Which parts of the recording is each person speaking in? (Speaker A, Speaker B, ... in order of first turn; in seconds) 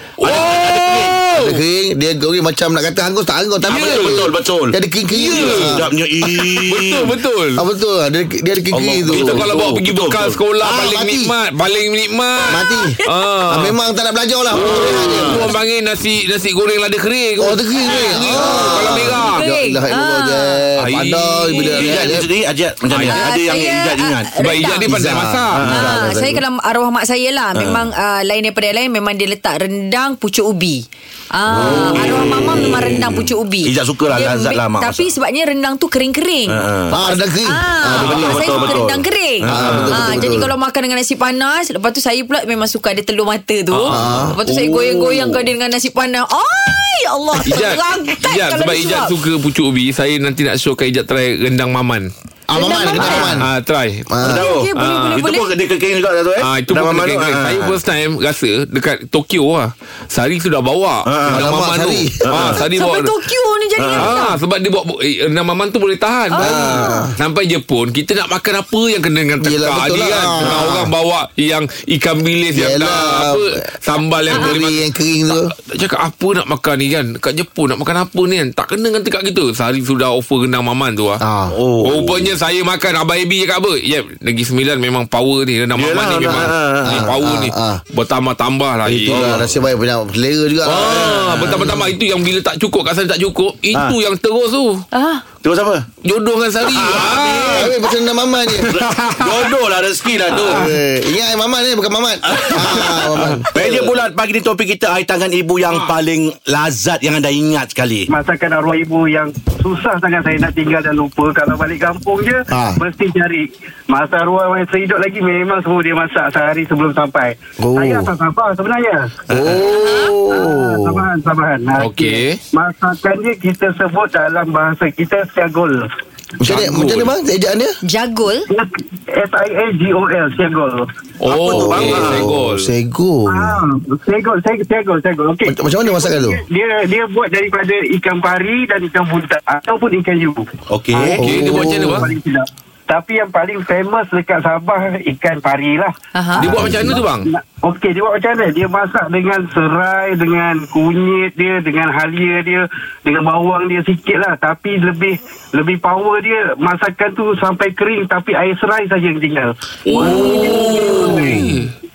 Speaker A: 0.2-1.6, 3.7-4.3, 5.2-7.6, 9.1-13.8, 14.5-19.4, 20.8-22.1, 22.9-23.2, 24.4-25.6, 43.7-44.1, 47.5-52.1, 53.0-54.1, 54.8-55.2, 56.4-63.1, 64.0-81.2, 81.8-89.4, 90.7-94.8, 96.0-97.7, 98.6-99.5, 100.5-100.7, 102.5-103.4, 121.8-122.4, 126.5-127.1, 131.2-132.7, 141.2-142.1, 146.4-147.3, 159.9-161.7
Speaker B: 0.2-1.4, 3.6-7.1, 8.7-10.4, 14.5-15.5, 21.6-24.4, 25.6-25.9, 27.6-27.9, 31.5-35.1, 36.5-37.0, 38.0-40.4, 43.9-45.4, 54.2-57.8, 61.0-61.5, 62.2-62.6, 63.8-64.1, 81.5-82.3, 85.8-87.1, 88.9-89.5, 90.8-91.8, 95.4-95.9, 96.6-97.7, 98.7-100.7, 102.3-108.1, 119.3-119.6, 131.4-132.3, 140.7-141.2
Speaker C: 1.4-5.9, 7.6-9.5, 10.6-11.3, 12.5-13.0, 13.5-15.5, 17.4-22.3, 24.9-26.4, 36.9-38.8, 39.5-40.5, 43.9-44.4, 52.5-53.5, 54.1-54.5, 61.3-62.5, 66.4-67.1, 69.4-70.9, 72.5-73.6, 74.3-75.5, 81.2-81.6, 86.9-87.8, 89.1-91.9, 97.5-98.7, 100.5-103.9, 112.5-112.8, 117.6-118.1, 119.3-121.0, 126.4-127.8, 131.5-133.6, 135.5-136.4, 141.1-142.1, 146.6-147.0
Speaker D: 12.7-13.1, 17.9-18.2, 19.4-20.6, 21.6-21.8, 23.0-24.9, 25.7-49.1, 52.5-53.3, 54.3-55.5, 62.7-64.4, 66.3-67.0, 94.9-95.2, 119.6-120.1, 127.8-128.5, 146.1-146.4
Speaker E: 108.1-119.2, 120.3-125.8, 128.5-130.9, 133.3-161.5